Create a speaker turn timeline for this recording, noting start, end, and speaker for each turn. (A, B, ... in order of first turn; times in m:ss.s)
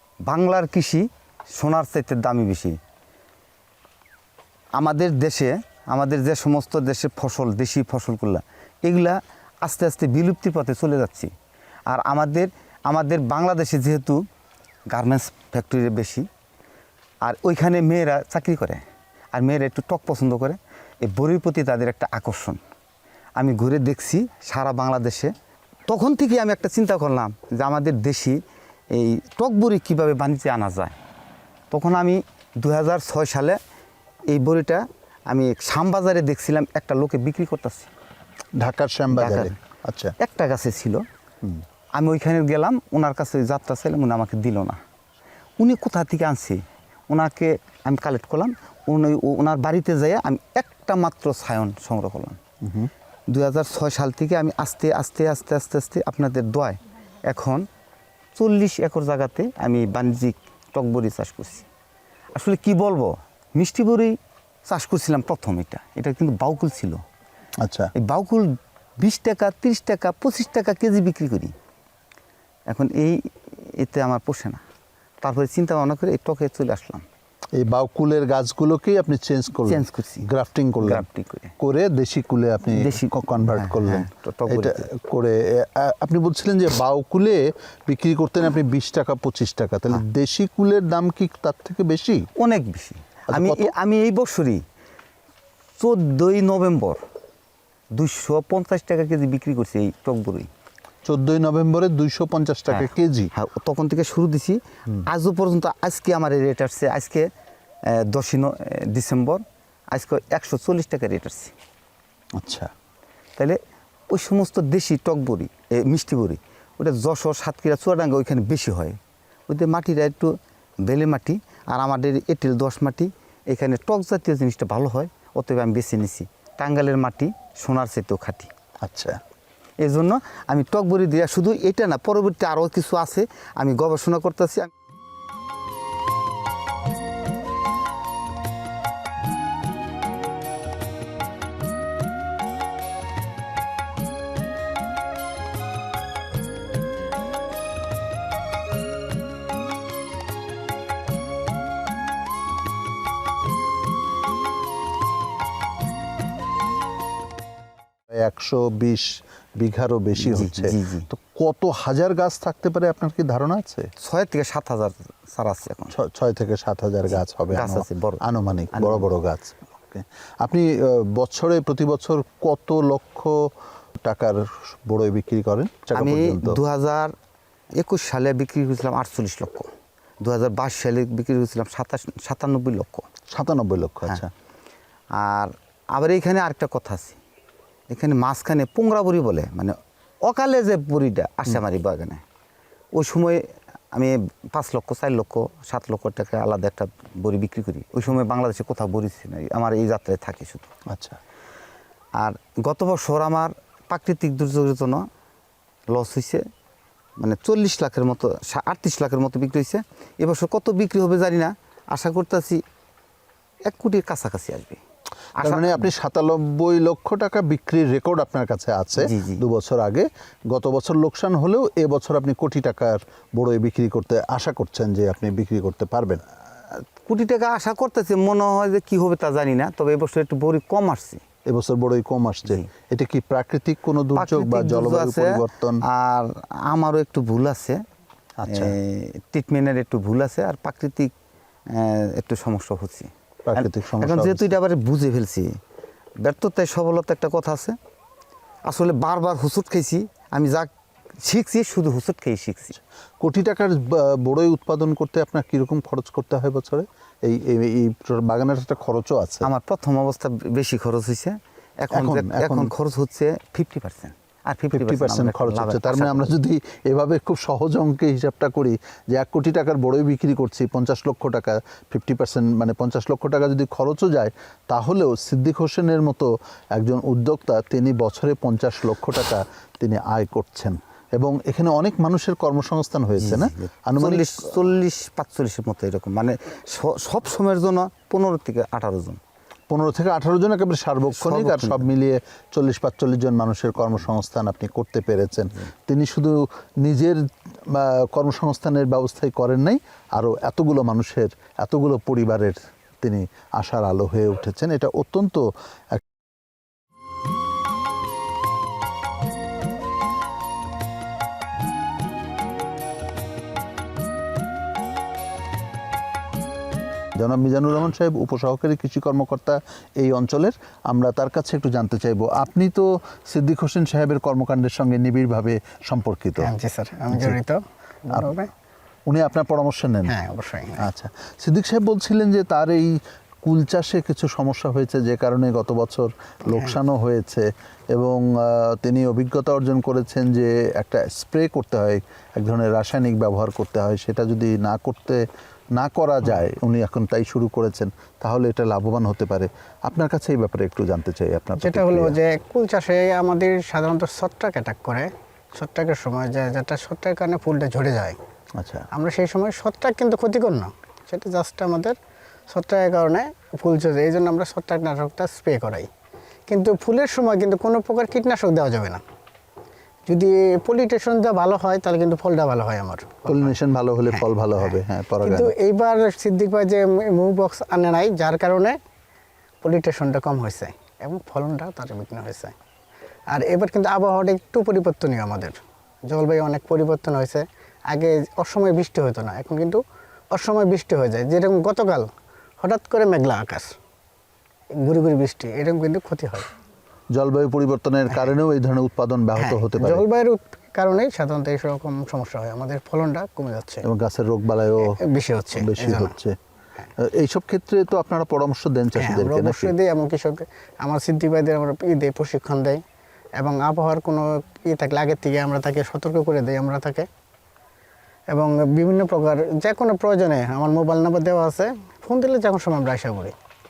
0:00.3-0:02.8 A
0:04.8-0:11.3 A
0:11.9-0:14.2 A
0:14.9-0:16.3 A
0:17.2-0:22.6 A
0:23.4-0:25.3 A
0:25.9-0:28.4 A
0:28.9-0:31.0 A
0:31.7-0:33.6 A
0:34.3-0:37.9 A
0:38.6-0:40.1 B
0:39.1-0:39.6 A
0:40.2-0:41.0 A
0:41.9-0:44.8 A
0:45.6-0:52.4 A
0:52.6-0:52.9 B
0:53.3-0:57.6 A
0:58.4-1:01.7 A
1:02.3-1:04.2 A
1:04.7-1:07.0 A
1:07.6-1:07.9 B
1:08.0-1:11.5 A
1:12.7-1:14.6 A
1:15.2-1:17.0 A
1:17.6-1:21.0 B
1:19.6-1:20.3 A
1:20.8-1:21.5 A
1:21.6-1:32.3 B
1:22.7-1:24.8 A
1:32.4-1:34.6 A
1:33.3-1:33.7 B
1:35.8-1:37.0 A
1:37.9-1:40.5 A
1:41.0-1:43.3 B
1:42.7-1:47.3 A
1:47.8-1:51.5 A
1:52.4-1:52.7 B
1:54.1-1:59.0 A
1:59.5-2:08.5 A
2:08.8-2:09.2 B
2:09.8-2:14.7 A
2:38.1-2:43.9 B
2:40.2-2:41.1 A
2:44.0-2:45.9 A
2:45.9-2:56.6 B
2:47.1-2:48.2 A
2:48.7-2:49.0 A
2:55.9-2:57.1 A
2:57.8-2:59.7 A
3:00.2-3:03.0 A
3:03.3-3:04.3 B
3:05.2-3:07.2 A
3:07.9-3:12.2 A
3:13.0-3:20.7 A
3:20.9-3:21.2 B
3:22.2-3:25.0 A
3:25.9-3:26.4 A
3:27.2-3:32.6 A
3:33.6-3:34.8 A
3:35.4-3:35.9 A
3:35.4-3:46.2 B
3:39.0-3:39.4 A
3:46.7-3:51.2 A
3:51.5-3:55.8 B
3:54.2-3:57.8 A
3:58.4-3:58.7 B
3:58.5-4:01.1 A
4:01.7-4:05.5 A
4:03.4-4:04.5 B
4:06.2-4:07.8 A
4:08.7-4:10.7 A
4:11.2-4:12.8 A
4:13.2-4:19.5 B
4:19.4-4:26.3 A
4:21.9-4:22.7 B
4:24.7-4:44.5 B
4:43.2-4:49.2 A
4:49.7-5:06.0 B
4:51.2-4:51.8 A
5:17.2-5:26.5 B
5:26.4-5:28.5 C
5:27.1-5:27.4 B
5:29.1-5:30.2 B
5:30.1-5:30.9 C
5:30.8-5:45.2 B
5:45.8-5:52.2 B
5:51.6-5:58.2 C
5:58.6-5:58.9 B
5:58.9-6:02.0 C
6:02.5-6:05.9 C
6:06.5-6:09.0 C
6:10.1-6:13.5 C
6:13.3-6:15.5 B
6:14.1-6:18.8 C
6:19.6-6:22.5 C
6:23.3-6:25.6 C
6:26.1-6:29.8 C
6:30.3-6:32.1 C
6:32.6-6:33.7 C
6:34.8-6:36.5 C
6:37.1-6:40.0 B
6:39.4-6:43.8 C
6:43.8-6:45.0 B
6:44.8-6:46.1 C
6:45.5-6:46.4 B
6:47.0-6:49.8 B
6:49.0-6:52.8 C
6:53.4-6:57.1 C
6:58.3-7:03.3 C